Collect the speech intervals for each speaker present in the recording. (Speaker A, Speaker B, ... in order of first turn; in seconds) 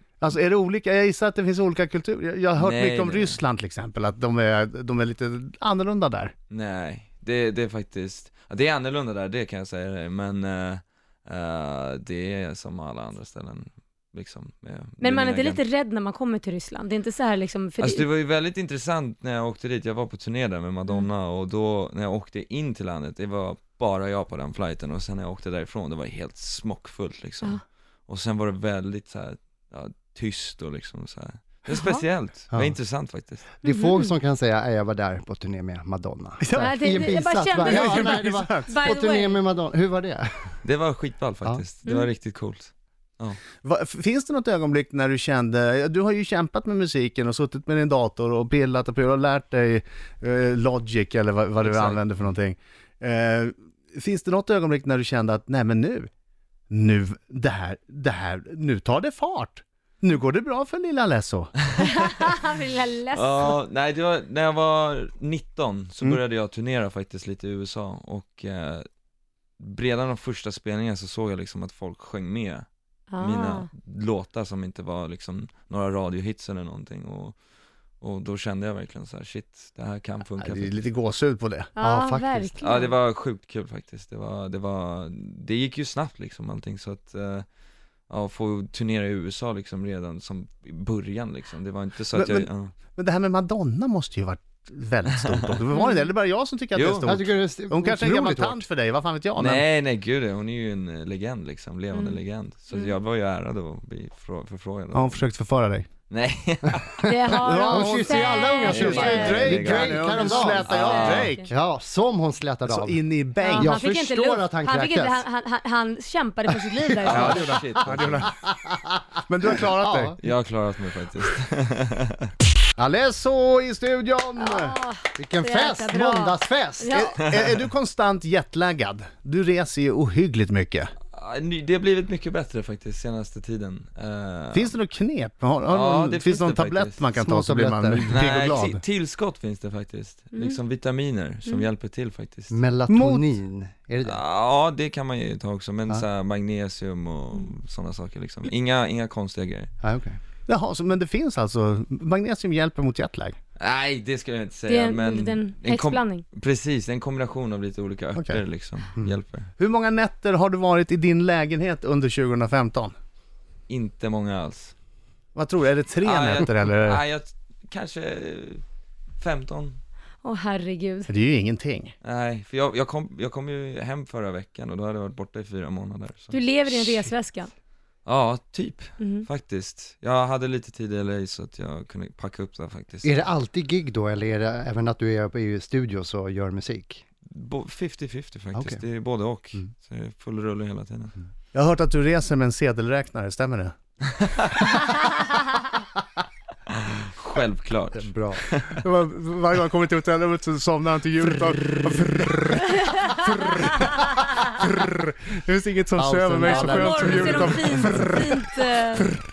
Speaker A: 0.2-6.3, 36.4-36.7, 37.6-38.9, 43.6-56.1, 56.7-61.6, 80.4-81.7, 92.1-99.6, 104.9-105.9, 107.4-111.5, 112.7-113.7, 117.0-118.3, 119.3-120.1, 122.8-124.8, 126.9-130.9, 134.5-138.8, 142.9-143.4, 150.5-153.4, 158.1-158.4, 159.6-162.9, 165.3-167.0, 171.1-171.9, 191.5-193.7, 198.8-204.0, 204.5-208.5
Speaker B: 2.6-3.4, 6.5-15.6, 17.8-33.4, 40.6-43.4, 51.6-52.0, 63.1-68.8, 69.6-72.7, 73.2-77.4, 78.0-80.7, 82.6-87.5, 88.1-92.7, 96.7-97.2, 99.3-105.2, 106.1-107.0, 108.6-111.3, 117.0-118.3, 120.2-122.3, 131.1-134.7, 135.7-137.1, 138.1-142.5, 144.0-149.7, 153.6-159.5, 163.7-164.7, 166.0-168.6, 169.2-169.8, 172.0-177.1, 178.1-183.2, 187.3-191.1, 196.7-198.8
Speaker C: 15.0-18.1, 33.6-34.1, 36.6-39.4, 61.8-63.5, 73.1-73.7, 81.8-82.9, 95.7-96.1, 101.9-102.2, 107.0-109.5, 110.7-111.5, 113.4-117.5, 124.4-127.1, 154.7-156.2, 170.2-171.1, 176.3-177.5, 179.0-179.3, 202.7-203.9, 206.4-209.1
Speaker D: 33.6-40.5, 81.8-82.6, 97.0-98.7, 107.4-115.2, 117.0-117.3, 118.4-118.9, 119.8-120.3, 125.2-126.9, 137.2-138.1, 142.5-144.2, 149.8-150.2, 183.0-187.0, 188.5-188.8, 198.0-198.4, 206.0-207.7